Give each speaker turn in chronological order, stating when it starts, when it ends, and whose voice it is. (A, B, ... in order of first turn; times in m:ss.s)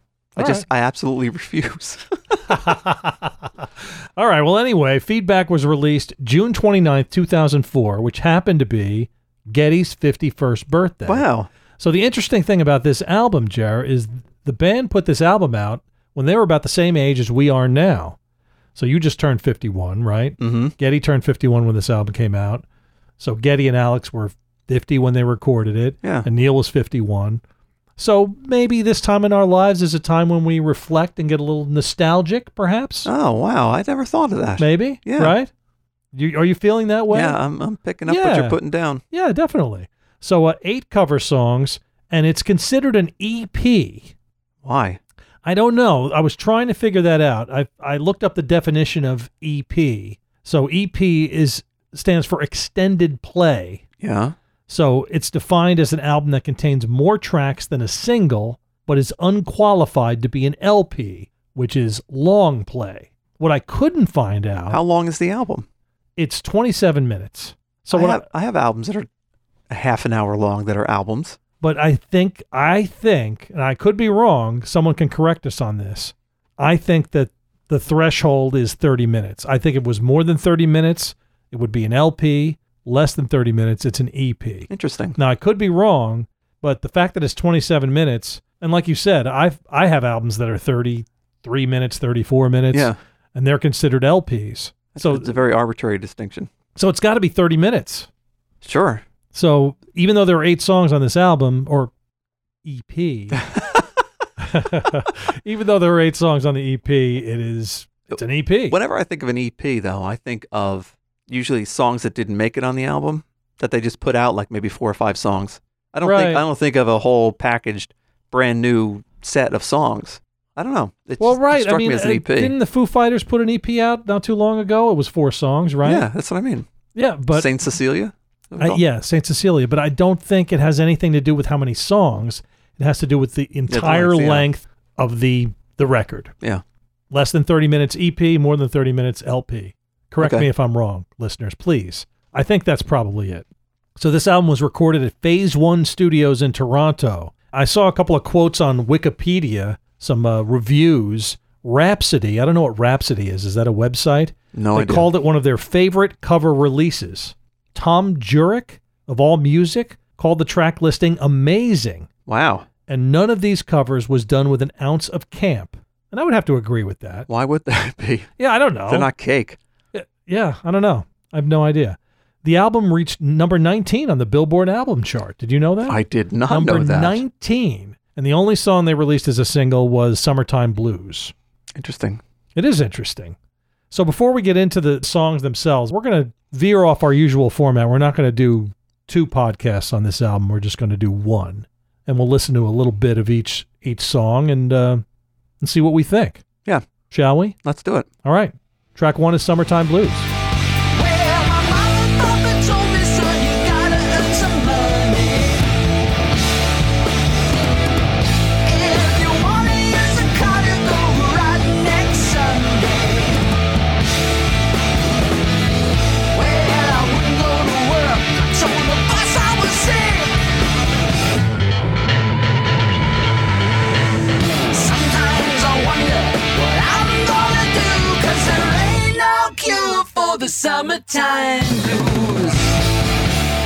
0:00.4-0:02.5 A
0:00.4-0:00.6 B
0:02.5-0:11.2 B
0:11.0-0:11.5 A
0:11.8-0:18.2 B
0:18.7-0:22.6 B
0:20.4-0:20.7 A
0:23.2-0:27.4 B
0:28.0-0:33.1 B
0:33.0-0:35.3 A
0:34.6-0:35.5 B
0:36.1-0:37.4 B
0:37.1-0:39.0 A
0:38.1-0:38.6 B
0:39.1-0:44.1 B
0:44.6-0:45.0 A
0:45.4-0:53.8 B
0:54.0-0:54.3 A
0:54.7-1:04.8 B
1:04.7-1:05.7 A
1:06.2-1:08.2 B
1:07.9-1:09.1 A
1:09.7-1:11.4 A
1:11.6-1:35.3 B
1:24.7-1:25.2 A
1:32.7-1:33.0 A
1:34.9-1:36.5 A
1:36.8-1:38.1 B
1:38.6-1:39.0 A
1:39.3-1:41.9 B
1:42.6-1:43.4 B
1:43.3-1:43.8 A
1:44.4-1:48.8 B
1:48.1-2:02.5 A
1:56.0-1:56.4 B
2:01.2-2:06.0 B
2:05.8-2:06.7 A
2:06.9-2:07.5 B
2:07.3-2:08.8 A
2:08.6-2:16.3 B
2:13.7-2:14.4 A
2:17.1-2:23.4 B
2:20.2-2:20.5 A
2:24.0-2:42.1 B
2:34.5-2:35.1 A
2:42.3-2:42.7 A
2:42.9-2:47.3 B
2:47.3-2:48.3 A
2:48.4-2:49.1 B
2:48.9-2:49.6 A
2:49.9-3:01.3 B
2:55.9-2:57.2 A
3:01.7-3:02.2 A
3:02.6-3:03.4 B
3:03.9-3:15.0 B
3:15.6-3:16.4 B
3:17.1-3:17.6 B
3:17.6-3:18.1 A
3:18.2-3:20.3 B
3:20.9-3:25.7 C
3:28.6-3:33.4 C
3:36.3-3:40.4 C
3:44.5-3:52.8 C